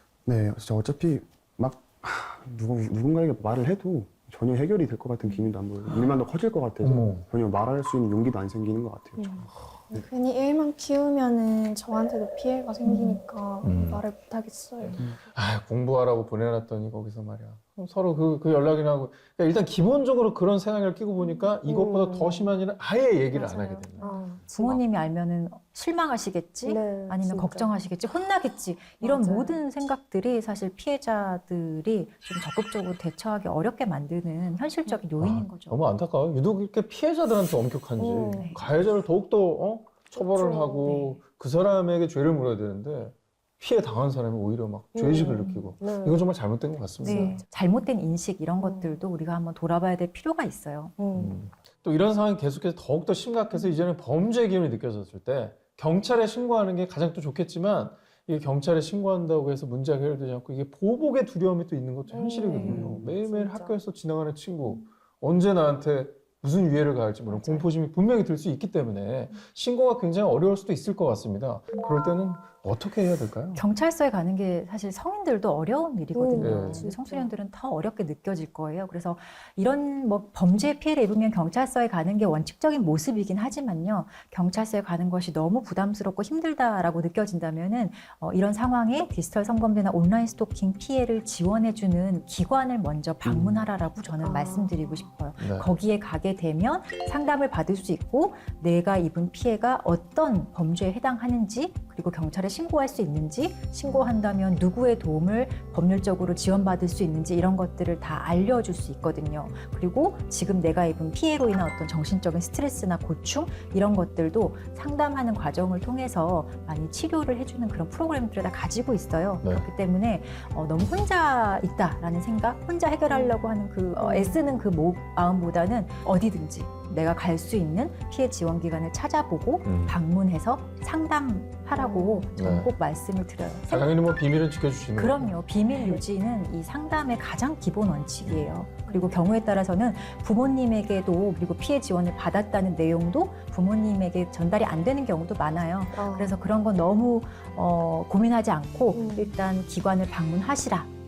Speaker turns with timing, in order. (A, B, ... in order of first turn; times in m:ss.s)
0:00.2-0:10.0 A
0:05.2-0:05.5 B
0:05.8-0:06.1 C
0:06.8-0:07.2 C
0:09.2-0:15.0 D
0:13.6-0:14.1 C
0:14.8-0:24.8 C
0:21.2-0:22.5 B
0:23.3-0:24.4 B
0:24.5-0:35.8 E
0:26.6-0:27.7 B
0:29.0-0:29.6 B
0:35.2-0:47.4 C
0:38.0-0:38.6 B
0:38.4-0:38.6 E
0:40.1-0:41.0 B
0:40.8-0:41.2 E
0:44.9-0:46.2 B
0:47.0-0:47.4 B
0:47.0-0:51.0 E
0:48.6-0:49.0 B
0:51.0-0:51.4 B
0:51.1-1:13.6 C
0:53.5-0:53.8 B
1:02.1-1:03.8 B
1:02.6-1:03.1 A
1:07.3-1:07.7 E
1:13.5-2:14.0 E
1:16.1-1:17.4 B
1:16.4-1:16.9 C
1:33.2-1:33.6 C
1:34.0-1:35.0 B
1:35.4-1:35.7 C
1:43.8-1:44.1 B
2:03.1-2:04.4 B
2:09.6-2:10.0 C
2:11.7-2:12.3 B
2:12.3-2:12.7 C
2:13.7-2:15.4 C
2:14.9-2:30.9 E
2:15.7-2:16.0 B
2:18.2-2:18.5 C
2:18.8-2:19.2 B
2:25.9-2:26.4 B
2:28.9-2:29.3 B